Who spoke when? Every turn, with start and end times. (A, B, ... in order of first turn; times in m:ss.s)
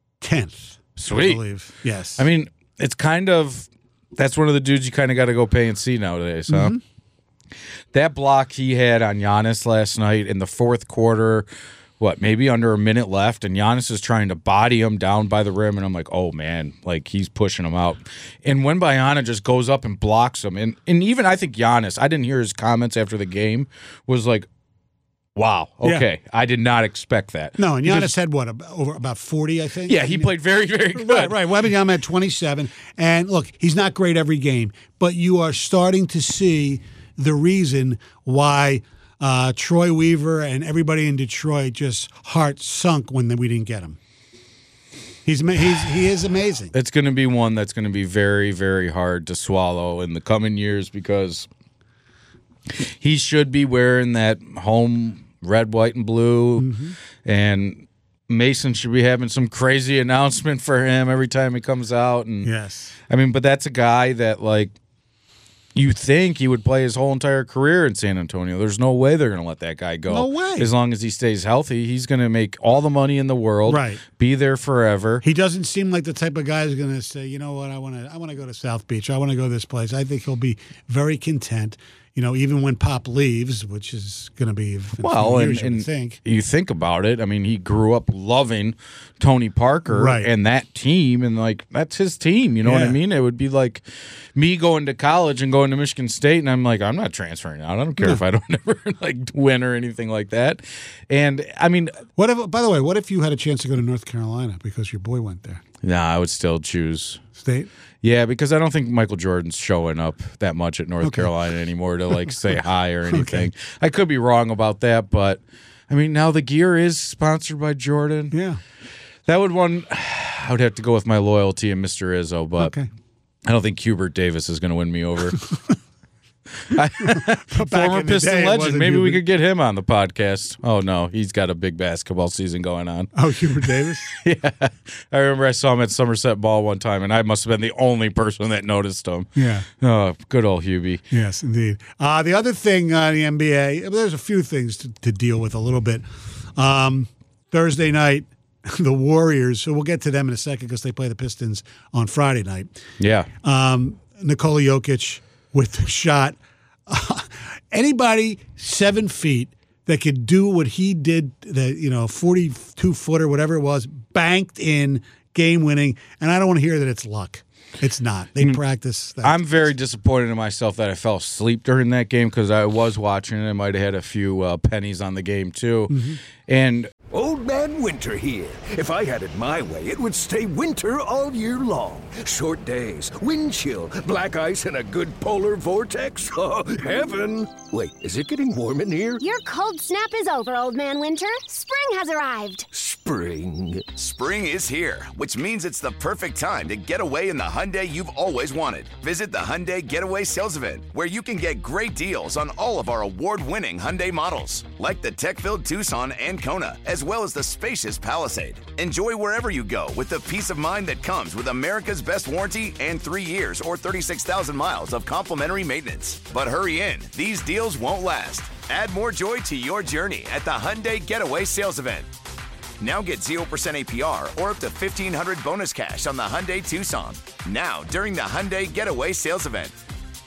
0:00.2-0:02.2 A
0:01.0-0:01.4 B
0:02.2-0:06.8 B
0:06.5-0:06.8 A
0:07.9-0:11.5 B
0:12.0-0:24.5 B
0:25.4-0:28.1 B
0:27.6-0:30.3 A
0:29.9-0:31.4 B
0:30.9-0:44.0 A
0:45.3-0:46.7 A
0:46.7-0:51.5 B
0:52.8-1:02.5 B
0:56.6-0:57.0 A
1:02.4-1:03.0 A
1:03.1-1:04.8 B
1:05.8-1:15.2 B
1:10.1-1:10.7 A
1:13.7-1:14.0 A
1:15.2-1:26.2 A
1:25.0-1:33.8 B
1:29.9-1:30.3 A
1:32.6-1:33.0 A
1:34.4-1:42.0 B
1:42.2-1:45.6 A
1:45.8-1:47.2 B
1:47.4-1:47.7 A
1:48.0-1:58.4 B
1:51.0-1:51.3 A
1:53.1-1:53.5 A
1:58.3-1:58.6 A
1:59.3-2:02.8 B
2:02.6-2:02.9 A
2:03.5-2:05.4 B
2:06.7-2:21.0 B
2:07.0-2:09.2 A
2:13.2-2:14.2 A
2:19.4-2:19.7 A
2:21.1-2:26.0 A
2:26.6-2:32.7 A
2:33.0-2:33.3 B
2:33.4-2:49.6 A
2:49.2-2:56.9 B
2:55.9-2:56.2 A
2:57.1-3:09.2 C
3:09.2-3:12.6 D
3:12.7-3:13.9 C
3:14.0-3:42.1 E
3:42.8-3:49.8 E